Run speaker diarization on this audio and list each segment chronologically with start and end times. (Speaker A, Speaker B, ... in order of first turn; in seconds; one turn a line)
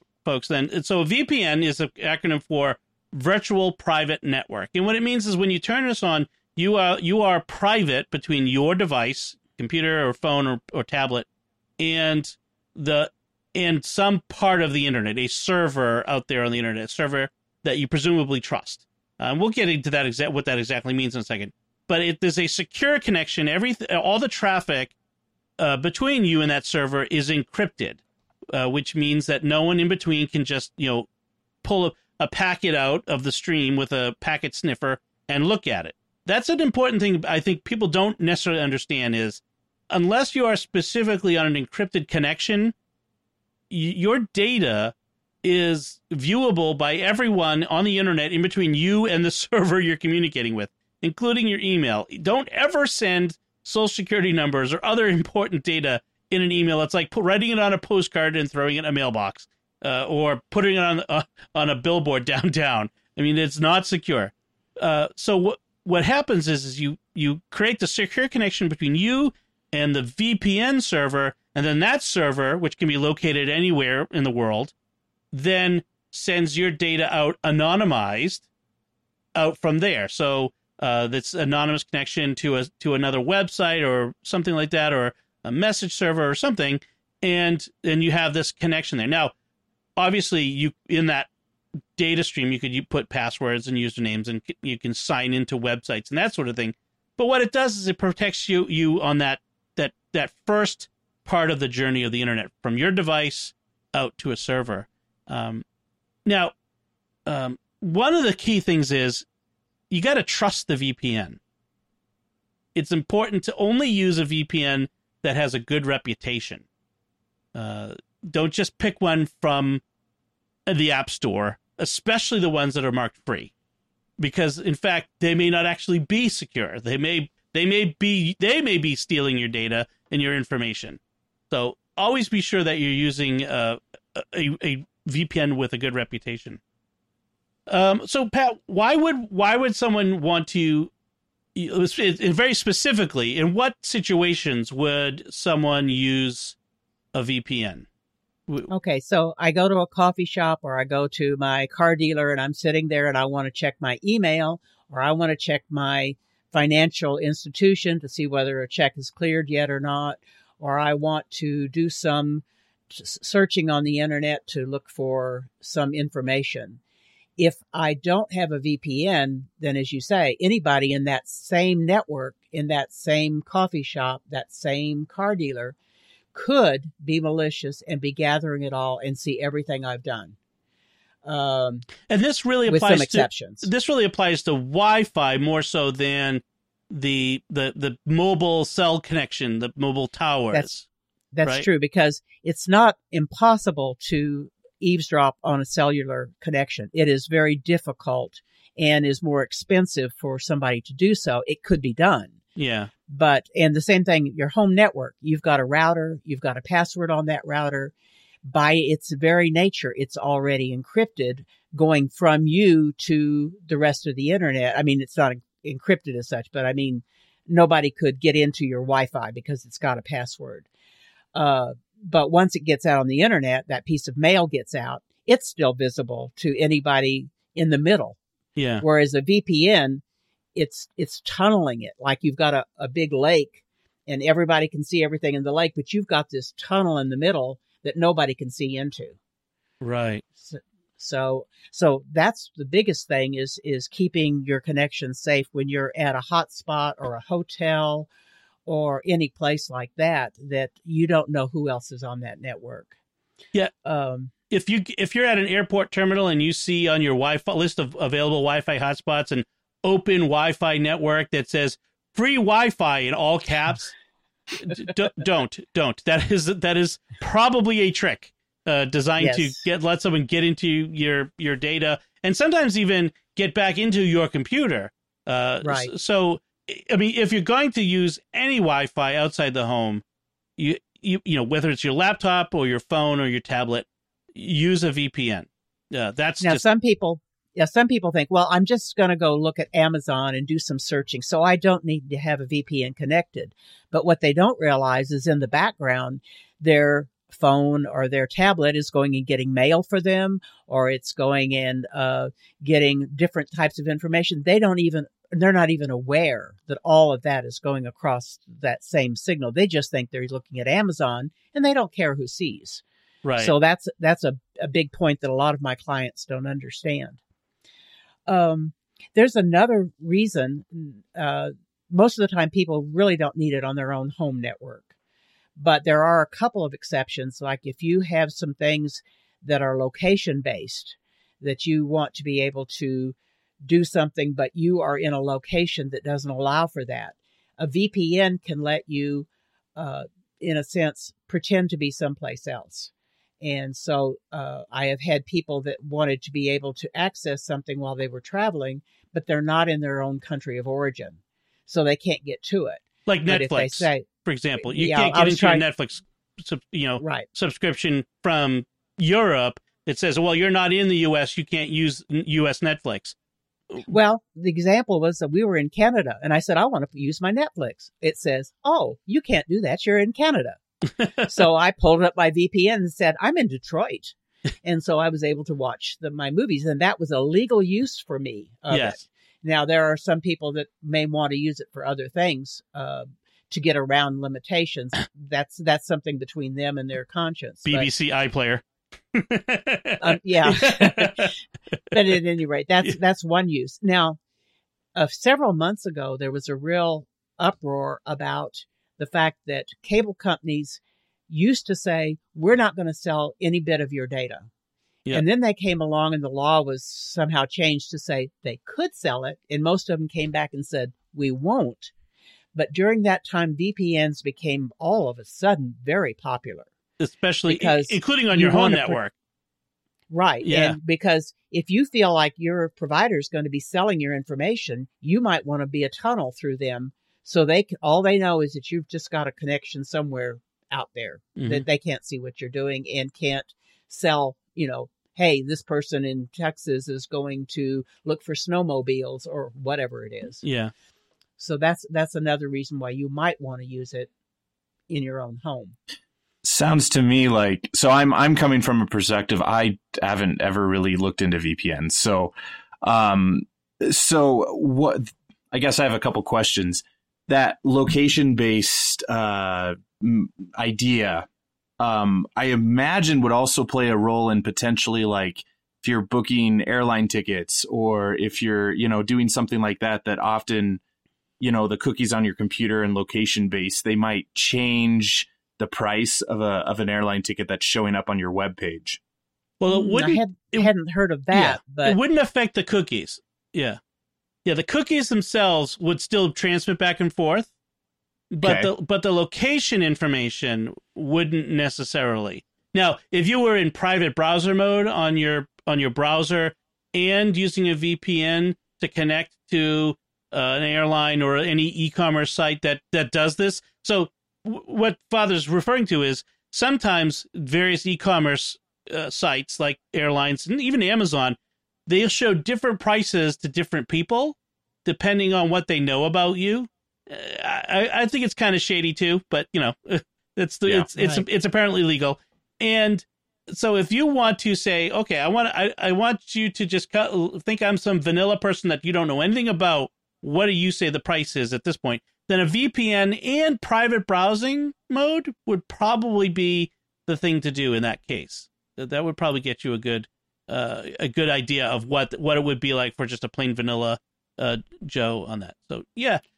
Speaker A: 0.2-11.3
Speaker A: 11.8-24.9
Speaker A: 25.6-28.0
Speaker A: 28.5-31.1
Speaker A: 31.6-42.8
Speaker A: 43.7-74.7
Speaker A: 75.3-78.5
Speaker A: 79.3-89.3
Speaker A: 90.0-91.3
Speaker A: 92.0-105.7
Speaker A: 106.3-106.5
Speaker A: 107.3-109.3
Speaker A: 109.9-111.4
Speaker A: 112.8-116.7
Speaker A: 117.5-119.8
Speaker A: 120.7-123.5
Speaker A: 124.2-136.6
Speaker A: 137.7-140.9
Speaker A: 141.6-146.6
Speaker A: 147.1-147.9
Speaker B: 148.7-166.8
Speaker B: 167.4-175.8
Speaker B: 176.3-180.4
Speaker B: 181.2-181.9
Speaker A: 182.1-190.9
Speaker B: 182.7-183.7
Speaker B: 191.3-202.4
Speaker A: 202.6-202.9
Speaker B: 203.1-220.7
Speaker B: 221.3-228.2
Speaker A: 228.6-228.8
Speaker B: 228.8-230.0
Speaker B: 230.6-239.2
Speaker A: 239.8-240.2
Speaker B: 240.4-248.1
Speaker B: 248.7-252.9
Speaker B: 253.8-254.3
Speaker A: 254.5-263.9
Speaker A: 264.6-280.0
Speaker B: 269.2-269.6
Speaker B: 275.6-275.9
Speaker A: 280.6-286.6
Speaker B: 286.4-312.8
Speaker A: 313.2-313.5
Speaker B: 313.4-317.2
Speaker B: 318.3-324.9
Speaker B: 325.6-354.1
Speaker A: 353.1-363.1
Speaker B: 354.6-355.6
Speaker B: 357.0-357.3
Speaker B: 363.9-370.6
Speaker A: 371.0-371.3
Speaker B: 371.3-387.9
Speaker A: 378.7-379.0
Speaker A: 387.7-391.8
Speaker B: 390.0-391.3
Speaker B: 391.9-394.2
Speaker B: 394.9-404.5
Speaker B: 405.1-411.9
Speaker B: 412.5-416.7
Speaker A: 417.0-419.1
Speaker B: 417.5-419.0
Speaker B: 420.1-440.4
Speaker A: 420.4-420.8
Speaker A: 431.4-431.6
Speaker A: 440.4-440.7
Speaker B: 441.4-444.1
Speaker B: 444.9-445.8
Speaker C: 446.4-461.3
Speaker C: 461.8-470.8
Speaker C: 471.4-479.0
Speaker A: 479.6-480.7
Speaker B: 479.7-482.0
Speaker A: 481.3-483.8
Speaker A: 484.4-487.5
Speaker A: 488.3-546.2
Speaker C: 488.4-488.7
Speaker B: 521.0-521.2